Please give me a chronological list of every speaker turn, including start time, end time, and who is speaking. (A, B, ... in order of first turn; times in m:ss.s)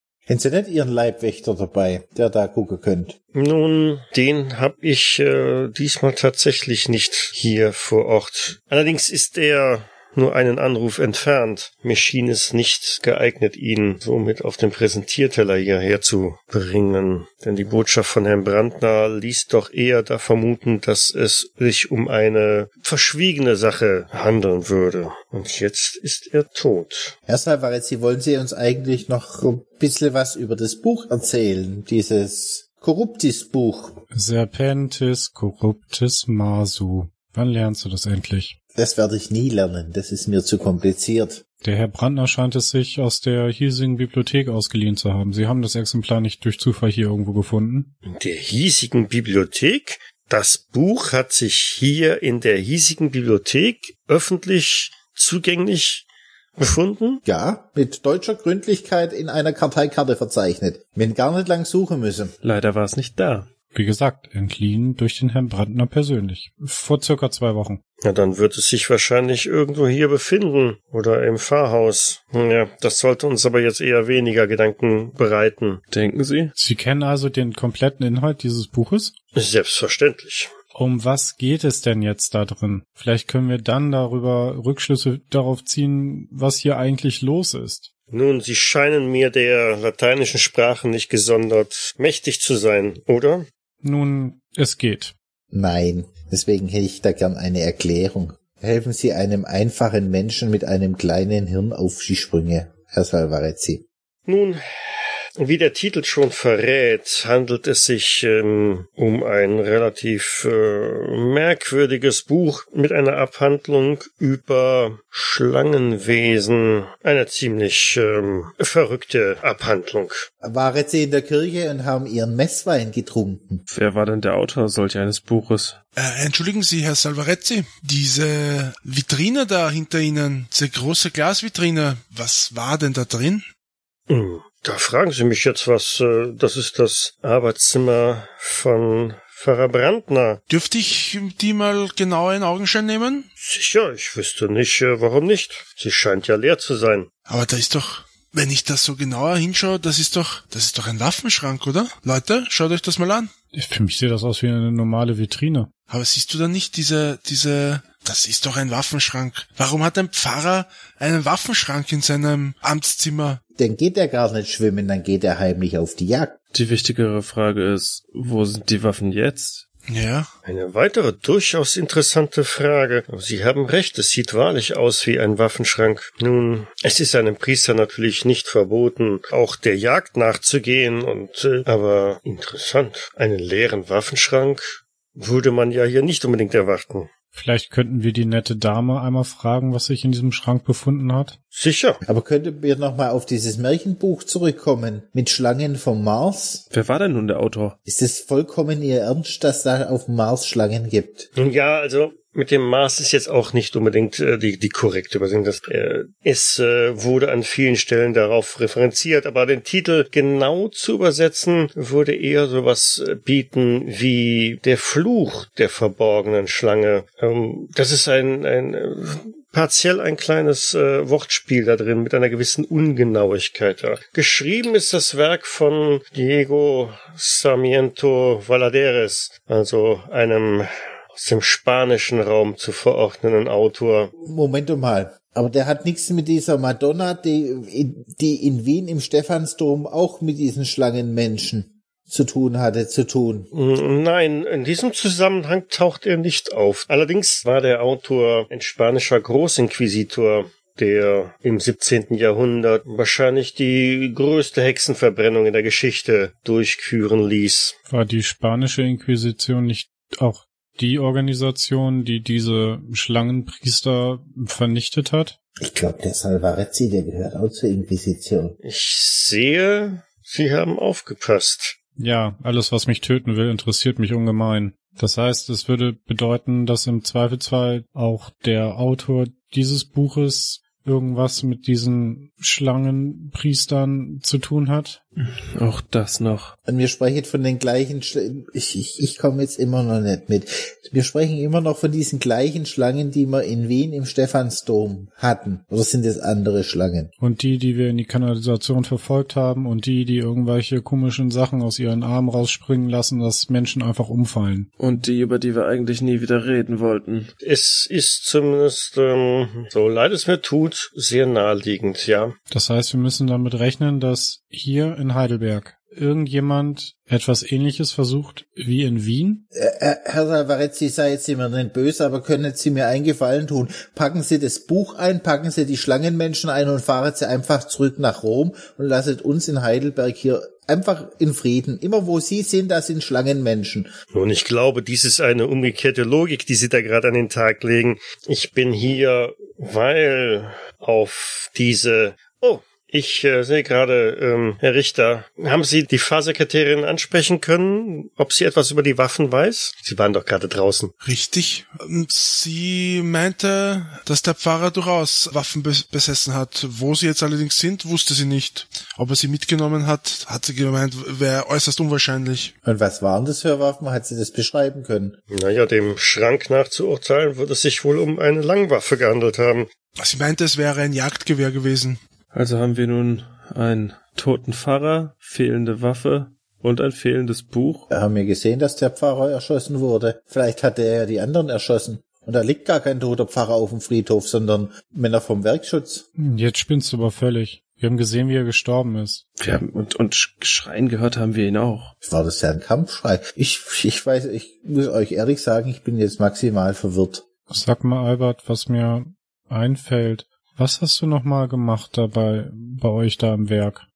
0:00.3-0:03.2 A
0:03.3-0:27.2 B
0:27.3-0:34.0 A
0:34.1-0:38.6 C
0:38.8-0:41.4 A
0:41.6-0:47.9 C
0:48.0-0:57.2 B
0:57.2-1:02.3 A
1:02.4-1:03.5 D
1:03.7-1:07.8 C
1:08.0-1:15.8 B
1:15.9-1:16.5 D
1:16.6-1:19.1 C
1:19.4-1:20.5 B
1:20.7-1:27.9 C
1:28.1-1:33.5 B
1:33.8-1:35.1 C
1:35.5-1:43.8 A
1:44.3-2:00.3 B
2:00.4-2:03.6 A
2:03.7-2:05.8 D
2:06.0-2:13.4 E
2:14.1-2:20.4 B
2:20.5-2:23.3 E
2:23.4-2:27.1 B
2:27.3-2:33.3 E
2:33.5-2:35.7 C
2:35.9-2:43.4 E
2:43.6-2:46.4 A
2:46.5-2:49.7 D
2:49.9-2:50.3 E
2:50.4-3:07.1 B
3:07.4-3:11.4 C
3:11.5-3:12.0 B
3:12.0-3:16.6 A
3:16.7-3:17.8 D
3:17.9-3:21.3 A
3:21.4-3:54.1 B
3:54.2-4:03.5 A
4:03.5-4:17.8 B
4:17.9-4:25.4 C
4:25.6-4:28.6 A
4:28.6-4:31.8 B
4:32.0-4:45.0 C
4:45.2-4:46.6 D
4:46.7-4:57.1 A
4:57.2-5:04.7 C
5:04.8-5:07.3 D
5:07.4-5:12.4 B
5:12.5-5:19.4 C
5:19.5-5:33.9 A
5:34.1-5:50.9 B
5:51.0-6:02.6 E
6:02.6-6:05.2 A
6:05.3-6:09.7 B
6:10.0-6:12.0 E
6:12.3-6:17.9 D
6:17.9-6:26.0 A
6:26.2-6:29.2 C
6:29.4-6:31.9 D
6:32.0-6:37.2 A
6:37.5-6:43.8 C